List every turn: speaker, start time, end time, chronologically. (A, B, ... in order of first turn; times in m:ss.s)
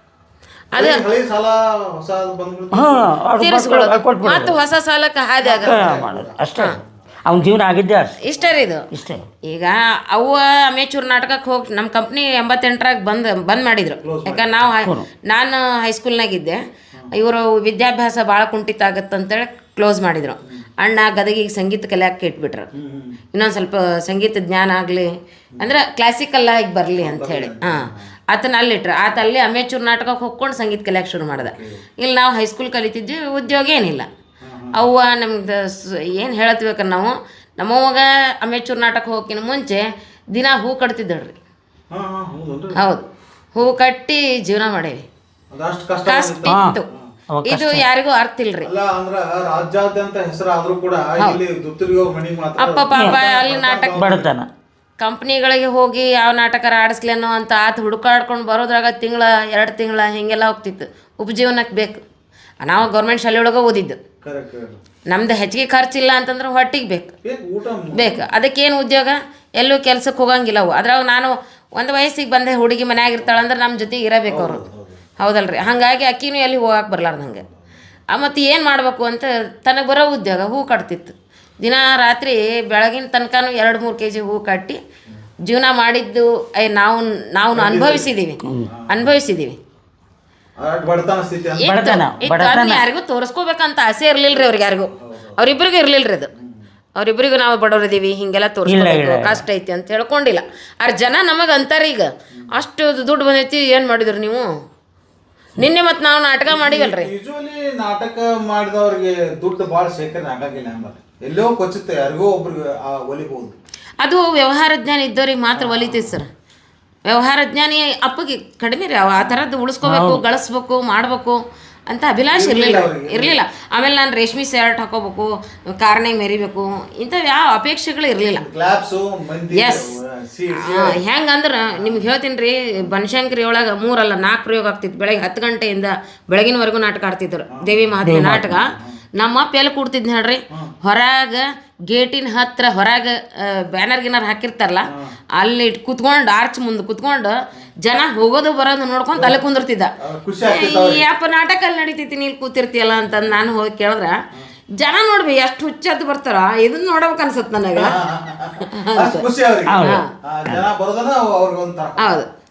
0:00.7-0:01.0 A
0:00.8-0:03.2 B
0:02.7-0:04.6 C
0:03.4-0:06.0 A
0:05.4-0:06.4 B
0:05.6-0:08.2 C
0:08.2-0:08.9 A
0:08.9-0:09.3 C
0:09.4-0:16.6 A
0:14.0-0:14.7 B
0:14.8-0:15.1 C
0:17.1-0:22.7 A
0:22.7-0:23.2 B
0:23.3-0:34.1 A
0:27.0-0:28.1 B
0:31.4-0:31.8 B
0:34.4-0:34.8 B
0:34.7-0:41.4 A
0:41.9-0:42.8 B
0:42.8-0:45.0 A
0:45.5-0:47.1 B
0:46.1-0:46.9 A
0:46.5-0:46.8 C
0:47.3-0:47.8 C
0:47.4-0:48.7 A
0:48.6-0:54.3 B
0:52.6-0:54.0 A
0:53.9-0:54.5 C
0:55.0-1:02.0 A
1:02.6-1:04.0 A
1:04.2-1:04.8 B
1:05.1-1:07.1 A
1:07.2-1:08.3 B
1:07.9-1:14.6 A
1:14.3-1:15.0 B
1:15.2-1:17.4 A
1:18.1-1:24.8 A
1:25.5-1:29.6 A
1:27.5-1:28.1 B
1:28.4-1:28.7 C
1:28.7-1:29.1 B
1:30.6-1:32.1 B
1:31.6-1:36.3 A
1:31.6-1:32.8 C
1:34.9-1:35.4 B
1:36.4-1:36.6 B
1:37.0-1:44.5 A
1:38.7-1:39.4 C
1:45.6-1:47.1 A
1:46.5-1:53.6 B
1:54.0-1:56.3 A
1:55.5-1:56.2 B
1:57.1-2:08.4 A
1:59.8-2:00.2 C
2:02.3-2:03.4 B
2:08.4-2:11.0 B
2:09.5-2:09.9 A
2:10.5-2:29.9 A
2:11.8-2:12.1 B
2:17.5-2:17.8 B
2:18.0-2:18.7 C
2:30.0-2:31.1 B
2:30.4-2:34.2 A
2:33.1-2:33.3 B
2:34.8-2:38.0 A
2:37.8-2:42.2 B
2:38.6-2:39.3 A
2:39.7-2:40.7 C
2:39.8-2:40.1 A
2:42.0-2:42.3 A